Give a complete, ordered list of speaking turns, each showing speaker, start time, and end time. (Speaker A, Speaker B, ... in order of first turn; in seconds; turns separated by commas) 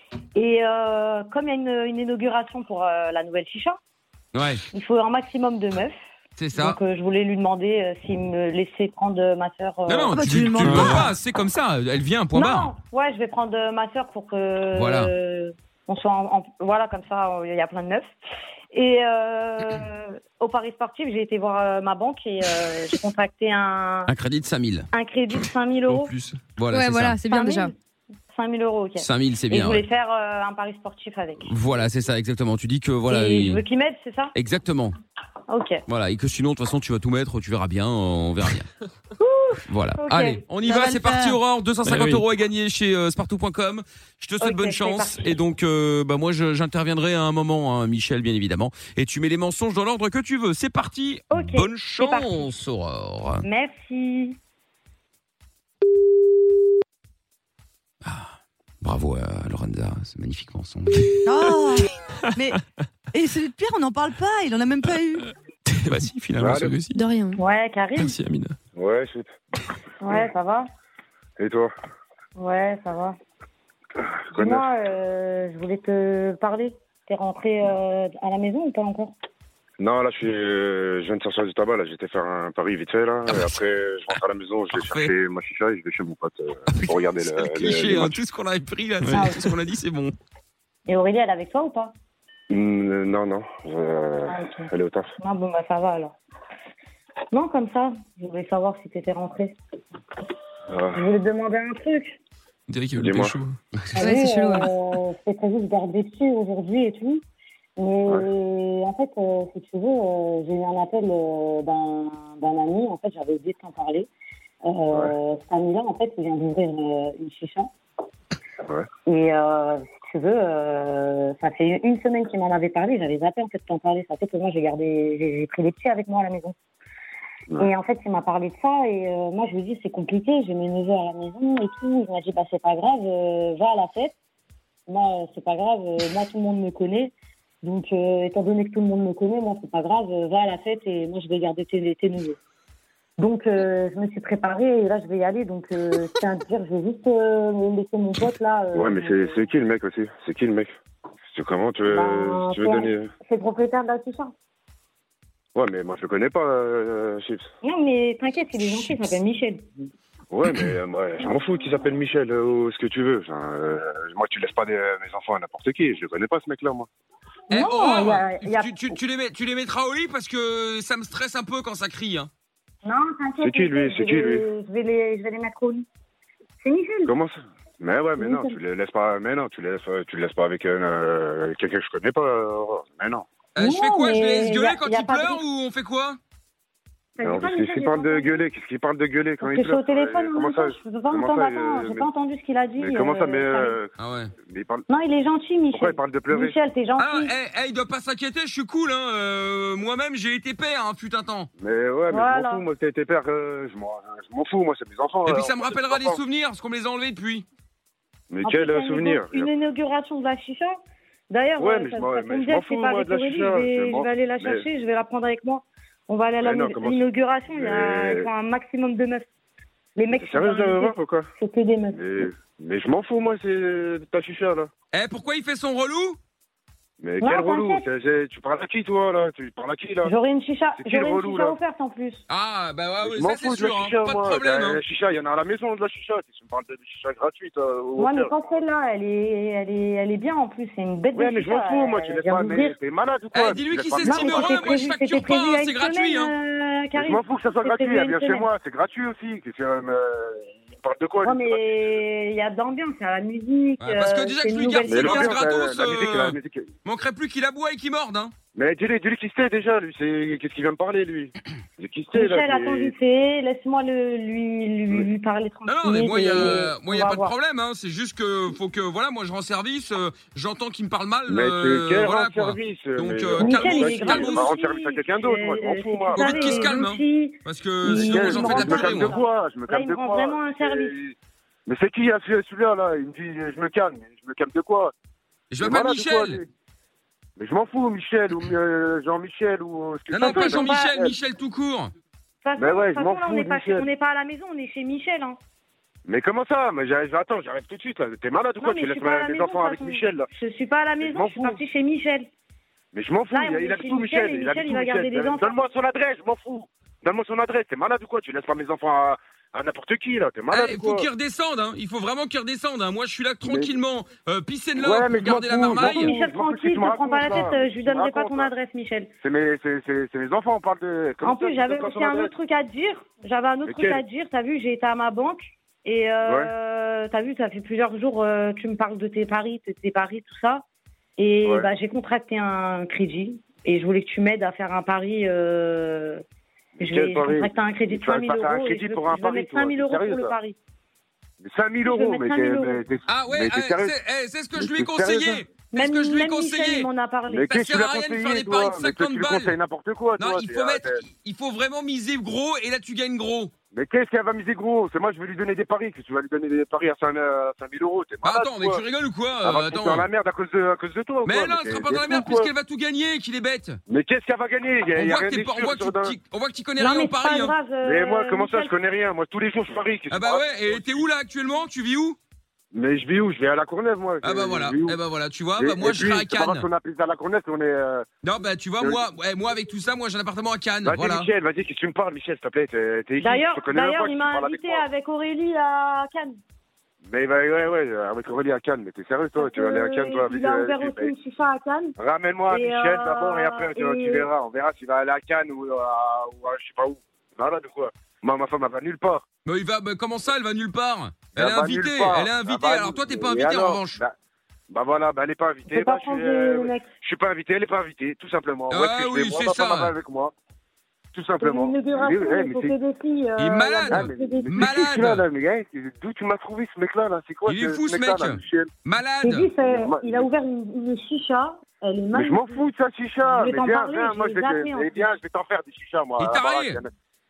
Speaker A: 0.3-3.8, Speaker B: 4.3-4.6, Speaker A: 4.7-6.0, Speaker B: 6.4-6.8, Speaker A: 6.5-10.2, Speaker B: 9.9-12.7, Speaker C: 10.1-11.1, Speaker D: 10.6-11.0, Speaker A: 12.3-18.1, Speaker B: 14.7-15.1, Speaker A: 18.7-24.1, Speaker B: 24.1-27.2, Speaker A: 24.9-26.1, Speaker E: 26.7-27.7, Speaker A: 27.3-27.7, Speaker A: 28.3-31.5, Speaker B: 29.0-29.8, Speaker B: 31.4-33.6, Speaker A: 33.1-34.3, Speaker B: 34.3-34.9, Speaker A: 35.5-35.8, Speaker B: 35.9-38.7, Speaker A: 39.2-40.4, Speaker B: 39.7-53.4, Speaker C: 40.6-41.4, Speaker D: 41.8-42.2, Speaker A: 44.4-45.3, Speaker A: 51.3-52.3, Speaker A: 53.4-54.4, Speaker B: 58.0-61.1, Speaker C: 61.2-62.6, Speaker C: 63.1-65.3, Speaker D: 65.7-66.1, Speaker B: 65.9-67.0, Speaker F: 66.4-66.7, Speaker E: 66.9-67.4, Speaker A: 67.4-68.1, Speaker D: 67.9-68.5, Speaker F: 68.7-69.3, Speaker A: 70.0-70.7, Speaker F: 71.4-71.7, Speaker A: 72.4-73.1, Speaker F: 74.3-74.7, Speaker A: 74.3-79.1, Speaker F: 79.8-88.2, Speaker B: 83.3-83.6, Speaker B: 84.7-85.1, Speaker B: 86.7-90.1, Speaker D: 89.0-89.3, Speaker A: 89.1-89.5, Speaker A: 90.9-91.9, Speaker F: 92.5-95.1, Speaker A: 94.3-96.2, Speaker A: 97.3-99.5, Speaker F: 100.7-101.0, Speaker A: 100.9-102.2, Speaker D: 102.7-103.5, Speaker F: 102.9-103.3, Speaker A: 103.9-107.2, Speaker E: 104.0-104.7, Speaker A: 107.8-114.1, Speaker A: 114.7-117.7, Speaker A: 119.0-126.5, Speaker A: 127.5-134.1, Speaker A: 134.9-137.1, Speaker A: 137.6-142.4, Speaker A: 143.2-149.4, Speaker F: 148.7-150.7, Speaker F: 151.3-153.1, Speaker A: 151.9-154.3, Speaker F: 155.5-157.4, Speaker A: 157.6-159.7, Speaker B: 158.6-159.1, Speaker F: 160.3-166.9, Speaker A: 167.5-168.9, Speaker B: 167.5-172.3, Speaker A: 172.8-175.8, Speaker F: 173.4-174.4, Speaker A: 176.6-177.1, Speaker F: 177.1-183.2, Speaker A: 178.2-178.6, Speaker B: 183.5-186.2, Speaker A: 183.6-185.4, Speaker A: 187.2-188.4, Speaker F: 187.2-192.1, Speaker A: 189.4-193.8, Speaker F: 192.8-193.9, Speaker B: 194.0-194.3, Speaker F: 194.4-194.8, Speaker A: 194.9-197.3, Speaker F: 195.7-196.6, Speaker B: 197.0-201.5, Speaker F: 201.6-206.2, Speaker A: 202.1-202.6, Speaker B: 205.2-207.4, Speaker F: 208.3-209.5, Speaker A: 208.4-210.7, Speaker A: 211.3-219.2, Speaker F: 211.6-214.7, Speaker F: 216.4-218.3, Speaker A: 219.9-222.3, Speaker F: 220.1-221.3, Speaker F: 221.9-224.7, Speaker B: 224.9-226.2, Speaker F: 227.0-230.1, Speaker A: 227.2-227.8, Speaker A: 230.0-232.2, Speaker F: 230.8-231.6, Speaker B: 232.3-234.8, Speaker F: 233.0-238.3, Speaker A: 238.0-242.8, Speaker F: 241.1-244.8, Speaker B: 243.3-246.3, Speaker A: 244.0-248.5, Speaker F: 246.9-251.9, Speaker A: 251.2-255.4, Speaker B: 253.8-258.3, Speaker F: 254.8-256.7, Speaker F: 258.5-262.9, Speaker A: 262.1-267.3, Speaker B: 265.7-274.5, Speaker F: 271.3-276.7, Speaker A: 273.4-280.9, Speaker B: 276.1-279.1, Speaker F: 277.9-281.1, Speaker F: 281.7-284.9, Speaker B: 285.5-286.4, Speaker F: 285.6-286.5, Speaker F: 287.4-291.1, Speaker B: 290.1-291.9, Speaker A: 290.2-290.9, Speaker A: 292.4-295.4, Speaker F: 292.6-293.9, Speaker F: 296.1-300.3, Speaker A: 298.6-302.2, Speaker F: 301.0-301.6, Speaker F: 302.9-311.1, Speaker A: 303.3-305.5, Speaker B: 310.5-316.2, Speaker F: 313.4-313.8, Speaker F: 314.8-318.5, Speaker A: 315.7-319.1, Speaker F: 319.2-322.3, Speaker A: 321.2-330.6, Speaker F: 323.6-324.0, Speaker F: 326.2-326.5, Speaker A: 331.2-336.2, Speaker F: 336.8-340.3, Speaker A: 336.8-340.6, Speaker F: 341.4-344.0, Speaker A: 341.9-342.8, Speaker B: 343.1-346.9, Speaker F: 344.6-345.4, Speaker A: 345.7-347.5, Speaker F: 347.3-351.0, Speaker B: 347.4-349.5, Speaker B: 350.2-353.5, Speaker F: 353.7-358.8, Speaker B: 358.2-360.1, Speaker F: 359.4-362.5, Speaker B: 361.2-363.8, Speaker F: 363.9-366.2, Speaker B: 364.9-367.6, Speaker A: 366.8-368.7, Speaker F: 367.8-371.0, Speaker B: 370.1-372.2, Speaker F: 372.7-375.0, Speaker B: 374.2-376.7, Speaker F: 375.6-378.1, Speaker B: 378.2-381.3, Speaker F: 378.8-379.0, Speaker F: 380.8-384.8, Speaker A: 383.2-386.4, Speaker F: 387.0-391.1, Speaker A: 389.4-391.9, Speaker F: 392.0-399.2, Speaker A: 392.5-394.3, Speaker B: 399.4-404.0, Speaker F: 401.3-404.1, Speaker F: 404.7-410.3, Speaker A: 405.7-406.9, Speaker B: 408.7-409.9, Speaker F: 411.1-412.8, Speaker A: 411.4-414.7, Speaker B: 413.4-415.2, Speaker F: 413.9-418.7, Speaker B: 417.4-419.5, Speaker A: 419.2-422.6, Speaker F: 419.6-420.3, Speaker F: 422.1-426.9, Speaker A: 423.2-425.1, Speaker B: 426.2-426.8